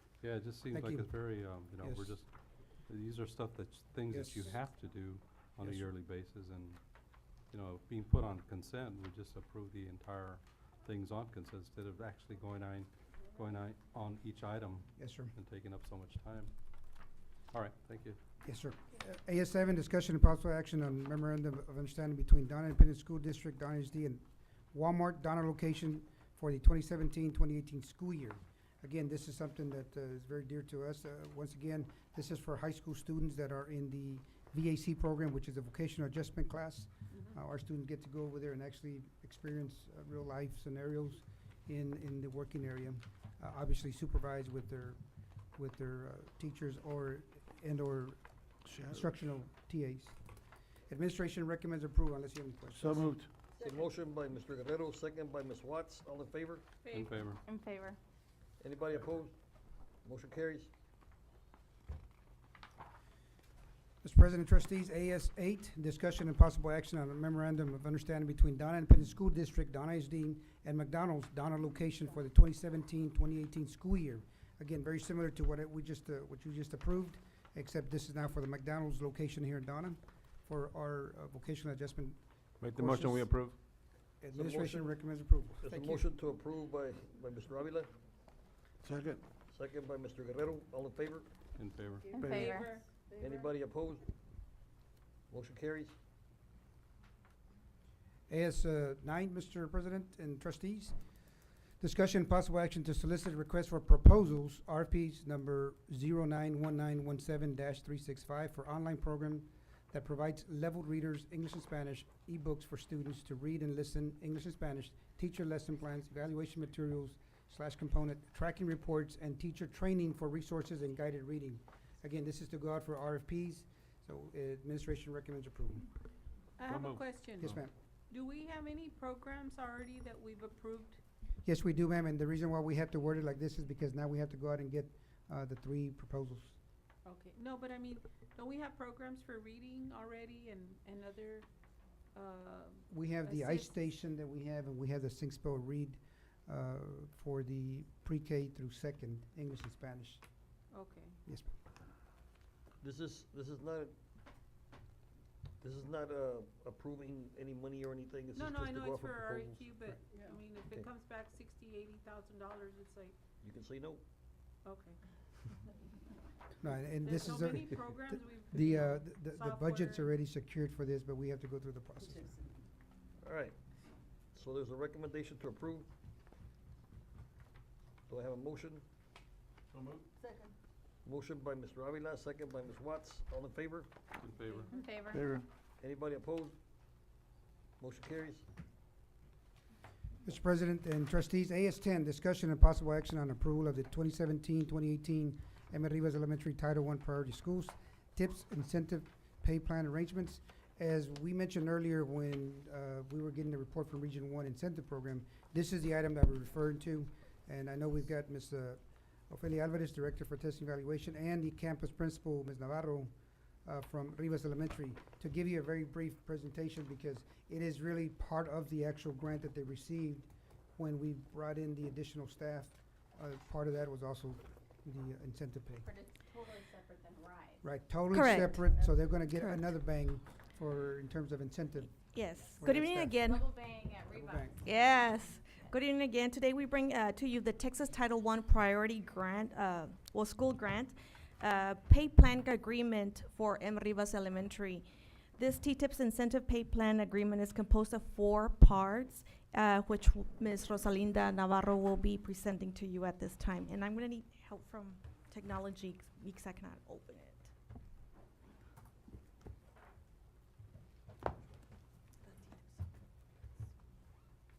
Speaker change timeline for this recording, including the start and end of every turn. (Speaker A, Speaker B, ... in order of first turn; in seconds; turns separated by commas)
Speaker A: 0.2-16.5, Speaker B: 0.6-2.2, Speaker B: 4.1-4.6, Speaker B: 5.6-5.8, Speaker B: 15.0-15.3, Speaker A: 17.5-18.2, Speaker B: 18.4-45.0, Speaker B: 45.5-50.2, Speaker B: 50.9-53.1, Speaker C: 52.7-53.3, Speaker D: 53.6-56.7, Speaker E: 56.8-57.2, Speaker A: 56.9-57.4, Speaker F: 57.5-58.0, Speaker D: 58.6-59.3, Speaker D: 60.0-60.7, Speaker B: 64.0-83.3, Speaker C: 82.6-83.6, Speaker B: 84.2-86.0, Speaker D: 84.3-85.0, Speaker D: 85.6-87.9, Speaker C: 88.8-89.2, Speaker D: 89.5-91.3, Speaker A: 91.5-92.2, Speaker F: 92.1-92.7, Speaker E: 92.2-92.8, Speaker D: 93.2-94.1, Speaker D: 95.3-96.0, Speaker B: 98.3-100.9, Speaker B: 101.8-125.8, Speaker E: 126.6-127.6, Speaker C: 126.7-127.6, Speaker B: 127.4-127.7, Speaker E: 128.1-131.0, Speaker B: 131.4-136.6, Speaker E: 137.0-141.5, Speaker E: 142.2-143.9, Speaker B: 142.9-150.2, Speaker E: 150.7-151.2, Speaker B: 151.2-151.5, Speaker D: 152.8-153.9, Speaker D: 155.6-159.7, Speaker E: 158.3-163.2, Speaker D: 163.4-164.0, Speaker E: 164.7-165.0, Speaker B: 166.6-172.3, Speaker E: 167.0-170.1, Speaker D: 173.2-173.6, Speaker D: 174.3-175.9, Speaker D: 178.1-178.8, Speaker D: 181.0-183.9, Speaker A: 184.2-184.8, Speaker F: 184.7-185.3, Speaker C: 185.1-185.4, Speaker D: 185.8-186.6, Speaker D: 187.8-188.4, Speaker B: 190.2-213.1, Speaker B: 213.7-225.9, Speaker F: 225.8-227.6, Speaker B: 227.6-231.9, Speaker G: 228.1-228.8, Speaker G: 232.1-233.6, Speaker B: 232.6-233.3, Speaker F: 233.2-235.7, Speaker B: 234.1-234.6, Speaker G: 234.6-257.5